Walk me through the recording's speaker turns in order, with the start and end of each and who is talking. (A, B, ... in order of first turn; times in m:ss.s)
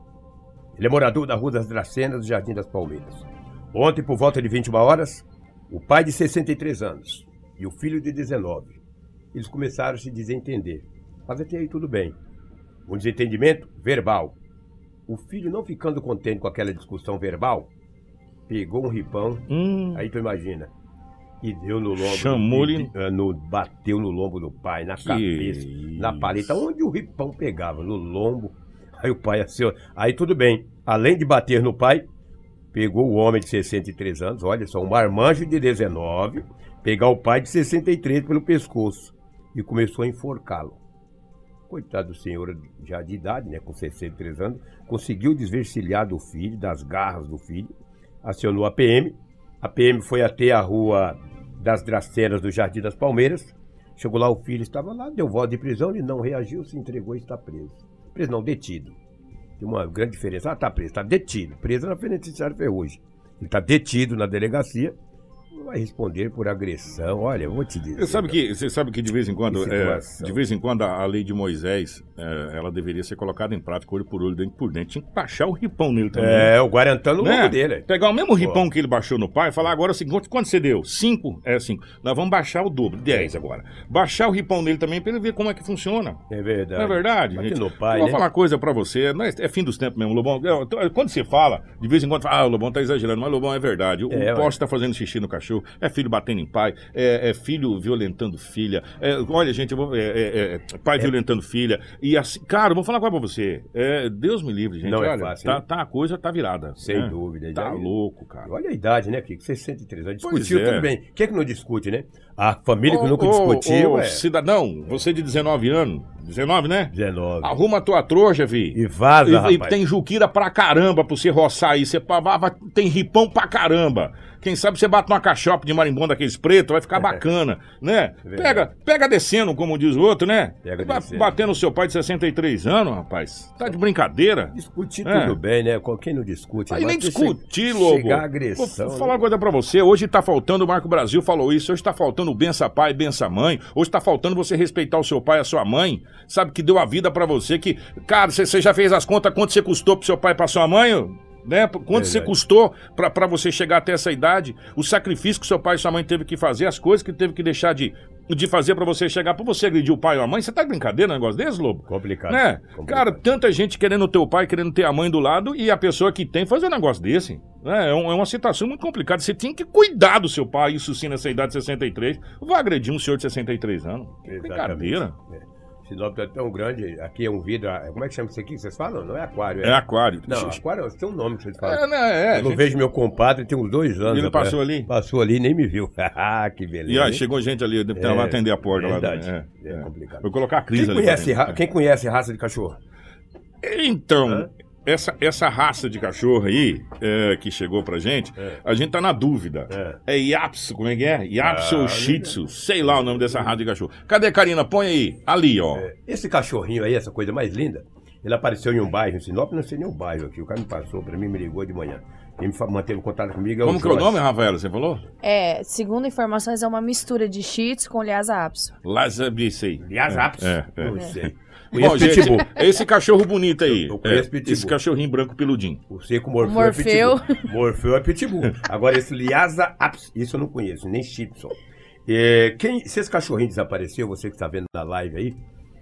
0:00.8-0:08.8 A
0:09.3-0:12.2 A
0:12.9-0:14.4 A
0:15.1-0:17.7 A
0:18.5-0:20.7 A
0:19.5-0:20.0 B
0:21.4-0:32.1 A
0:22.0-0:22.9 B
0:25.0-0:26.6 B
0:32.7-0:40.8 A
0:41.7-0:59.0 A
0:59.6-1:05.0 A
1:05.5-1:08.4 A
1:08.0-1:16.5 B
1:09.5-1:10.4 A
1:16.2-1:17.9 A
1:17.2-1:26.2 B
1:18.4-1:18.6 A
1:26.3-1:28.2 A
1:26.8-1:48.5 B
1:34.1-1:34.5 A
1:44.8-1:45.6 A
1:46.8-1:47.9 A
1:48.5-1:54.2 A
1:50.2-1:50.9 B
1:52.9-2:15.4 B
1:56.9-1:57.5 A
1:58.7-1:59.7 A
2:08.2-2:08.7 A
2:10.6-2:11.3 A
2:14.5-2:19.2 A
2:16.7-2:55.1 B
2:31.9-2:32.3 A
2:41.9-2:43.2 A
2:54.3-3:07.2 A
2:59.6-3:00.6 B
3:01.6-3:02.7 B
3:04.0-3:04.9 B
3:06.9-3:11.6 B
3:07.9-3:12.8 A
3:13.6-3:25.9 B
3:19.7-3:20.0 A
3:21.4-3:23.5 A
3:25.7-3:34.2 A
3:33.6-3:35.0 B
3:35.2-3:38.7 C
3:38.8-3:45.8 B
3:39.8-3:42.6 A
3:43.7-3:44.8 A
3:45.9-3:51.6 A
3:46.4-3:47.4 C
3:52.1-3:55.4 A